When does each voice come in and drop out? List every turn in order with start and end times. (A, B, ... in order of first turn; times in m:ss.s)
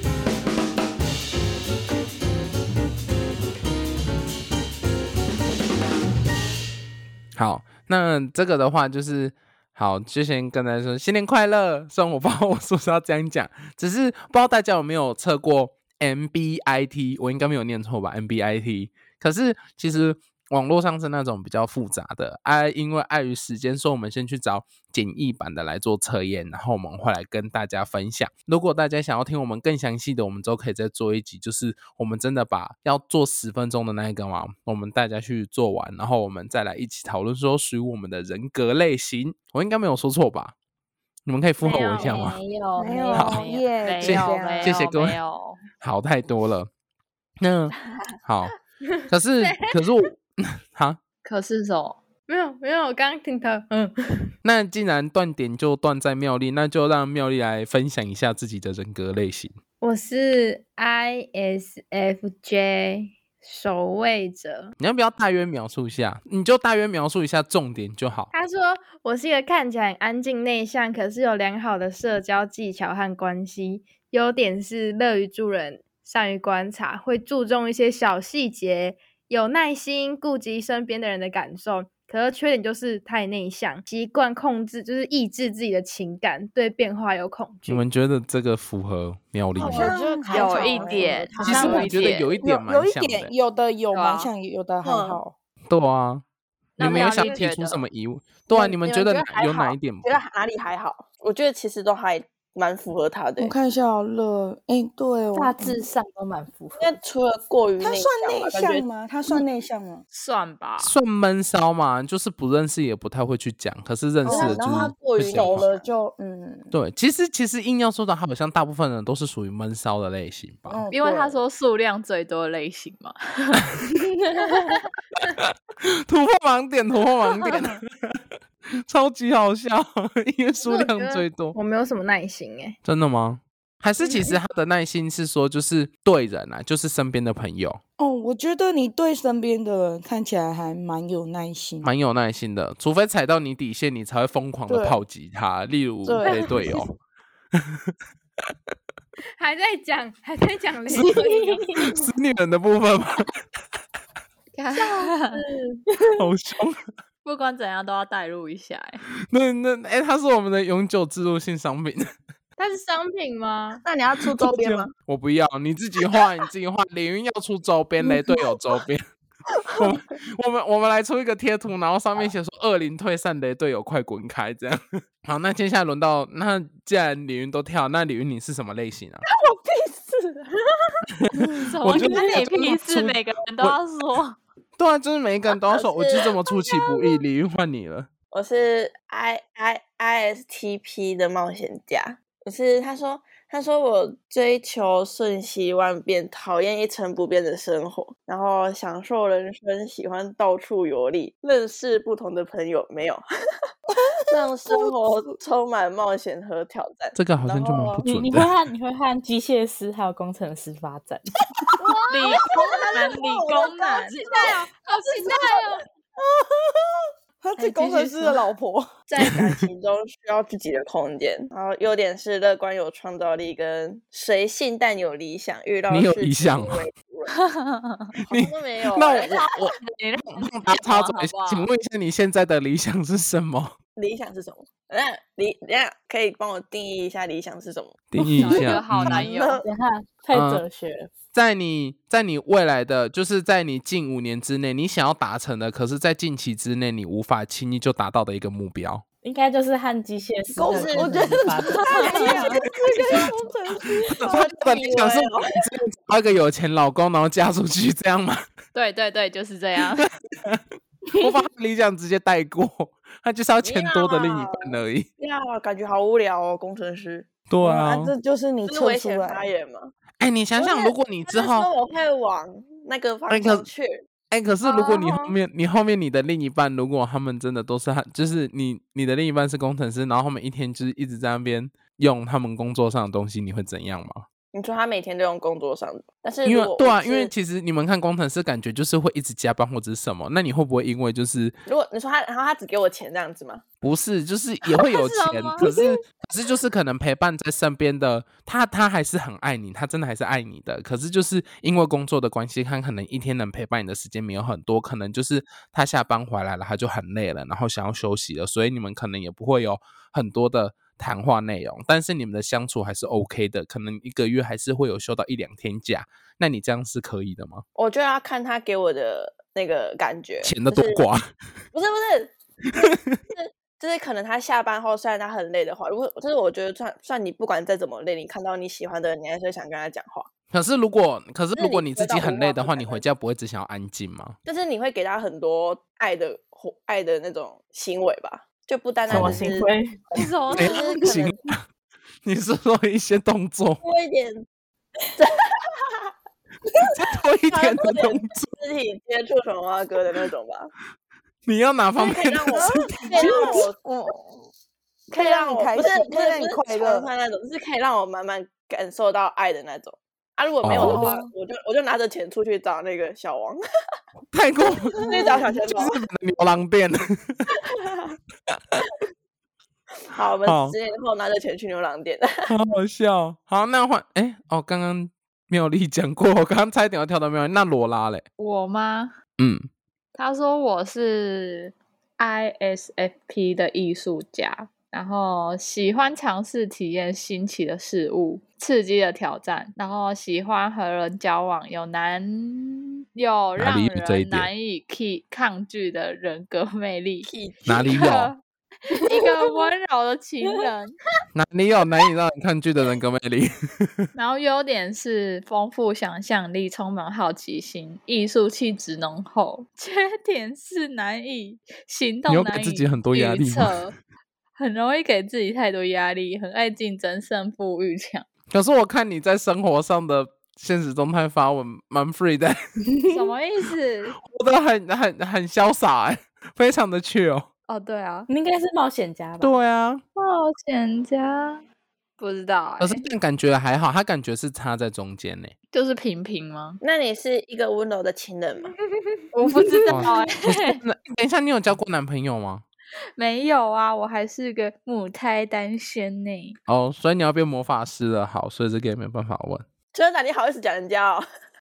0:07.4-0:40.5 A
0:41.3-0:42.4 A
0:41.6-0:45.6 B
0:41.7-0:42.0 C
0:42.8-0:44.8 D
0:43.1-0:43.5 A
0:44.0-0:45.2 A
0:45.8-0:46.7 A
0:47.4-0:47.7 A
0:48.2-0:48.5 A
0:48.8-0:49.7 C
0:49.1-0:51.0 A
0:51.2-0:52.0 B
0:52.3-0:54.3 C
0:54.4-0:59.5 A
0:59.8-1:04.7 C
1:04.8-1:08.3 A
1:08.3-1:27.8 C
1:27.7-1:30.0 A
1:29.6-1:31.8 D
1:29.6-1:31.7 E
1:30.3-1:32.3 B
1:31.4-1:31.8 C
1:31.4-1:33.3 A
1:31.5-1:31.9 F
1:32.4-1:35.3 D
1:33.9-1:34.3 B
1:34.8-1:35.2 E
1:35.7-1:36.2 A
1:36.8-1:37.8 B
1:36.8-1:40.2 A
1:36.8-1:37.4 C
1:38.6-1:38.8 E
1:38.9-1:39.2 B
1:39.4-1:43.5 E
1:43.4-1:45.8 D
1:45.3-1:46.9 F
1:46.8-1:48.9 E
1:47.8-1:50.0 D
1:50.1-1:50.9 B
1:50.8-1:55.6 A
1:54.2-1:56.7 D
1:54.3-1:55.9 E
1:56.7-2:00.8 A
2:00.7-2:01.4 D
2:00.9-2:03.6 B
2:03.8-2:04.8 F
2:05.2-2:08.2 A
2:08.9-2:11.6 A
2:10.6-2:12.8 C
2:12.8-2:17.8 A
2:14.0-2:14.4 C
2:18.0-2:21.9 D
2:21.8-2:26.9 A
2:24.7-2:25.0 D
2:26.0-2:26.7 D
2:26.2-2:26.7 B
2:29.4-2:32.1 C
2:30.9-2:32.0 F
2:31.9-2:33.3 A
2:34.5-2:35.4 B
2:34.8-2:35.8 C
2:35.9-2:36.3 F
2:36.2-2:36.9 A
2:37.2-2:39.0 B
2:39.3-2:42.1 A
2:42.6-2:43.8 C
2:43.8-2:44.9 E
2:44.4-2:49.0 A
2:49.8-2:59.2 A
3:01.2-3:03.8 A
3:01.6-3:04.4 B
3:04.8-3:08.1 A
3:05.7-3:06.4 E
3:08.3-3:23.2 E
3:24.0-3:25.2 D
3:24.3-3:28.0 E
3:27.2-3:28.5 A
3:28.0-3:31.7 F
3:31.9-3:33.0 C
3:32.1-3:35.7 B
3:32.4-3:34.6 E
3:32.6-3:34.3 D
3:34.0-3:35.8 C
3:35.2-3:35.7 E
3:36.3-3:36.8 D
3:37.4-3:38.9 D
3:37.6-3:38.4 B
3:39.1-3:47.4 E
3:45.9-3:46.8 A
3:47.4-3:48.1 B
3:48.3-3:49.5 E
3:48.3-3:49.8 A
3:49.2-3:51.7 B
3:50.3-3:53.7 A
3:54.0-3:58.0 E
3:58.1-3:59.2 A
3:58.2-3:58.8 F
3:58.3-3:59.6 B
3:58.9-3:59.7 E
3:59.6-4:01.1 F
4:00.3-4:00.6 A
4:01.3-4:09.0 A
4:09.2-4:12.3 F
4:10.5-4:14.5 D
4:10.6-4:12.7 E
4:11.8-4:12.6 B
4:14.1-4:18.4 A
4:14.2-4:15.6 E
4:18.7-4:20.1 B
4:20.0-4:20.6 A
4:21.1-4:25.1 A
4:23.6-4:27.3 E
4:27.5-4:28.1 A
4:27.6-4:29.5 D
4:28.7-4:29.9 E
4:30.2-4:31.7 A
4:30.6-4:34.0 E
4:33.3-4:33.7 A
4:34.3-4:44.2 A
4:34.6-4:35.4 E
4:44.5-4:47.3 E
4:46.4-4:51.6 A
4:51.7-4:53.6 E
4:53.8-5:17.6 A
4:54.9-4:55.7 B
5:17.8-5:21.1 E
5:20.4-5:21.2 A
5:21.7-5:30.3 E
5:30.5-5:34.4 A
5:31.5-5:33.0 E
5:34.4-5:39.7 E
5:39.1-5:39.4 A
5:39.1-5:40.3 F
5:40.1-5:40.9 B
5:40.4-5:41.4 E
5:40.5-5:41.6 A
5:40.9-5:41.2 F
5:42.2-5:43.8 A
5:43.8-5:44.5 E
5:45.2-5:45.6 E
5:46.8-5:48.5 A
5:47.5-5:50.7 E
5:51.5-5:53.5 A
5:51.9-5:53.8 E
5:52.5-5:54.5 D
5:55.1-6:03.6 E
5:55.1-5:57.1 D
6:00.6-6:01.1 A
6:00.8-6:01.3 D
6:04.3-6:07.0 A
6:05.0-6:06.0 E
6:07.6-6:08.2 E
6:08.5-6:08.9 A
6:10.1-6:12.4 E
6:10.4-6:10.8 A
6:12.5-6:18.2 A
6:18.4-6:19.1 B
6:19.4-6:19.7 A
6:20.2-6:41.0 B
6:33.6-6:34.5 A
6:37.2-6:37.9 E
6:37.7-6:38.3 A
6:41.3-6:44.1 A
6:44.1-6:53.9 B
6:52.3-6:53.8 A
6:54.6-6:58.2 B
6:58.5-7:02.6 A
7:02.9-7:03.3 F
7:03.1-7:04.2 B
7:04.2-7:07.5 A
7:07.7-7:08.3 B
7:08.3-7:09.6 F
7:09.4-7:10.0 A
7:10.2-7:11.6 B
7:12.2-7:13.1 B
7:12.8-7:15.5 A
7:15.7-7:16.8 B
7:16.8-7:18.8 E
7:19.3-7:20.8 B
7:19.9-7:22.6 A
7:23.2-7:26.6 B
7:26.7-7:29.6 A
7:29.9-7:31.2 E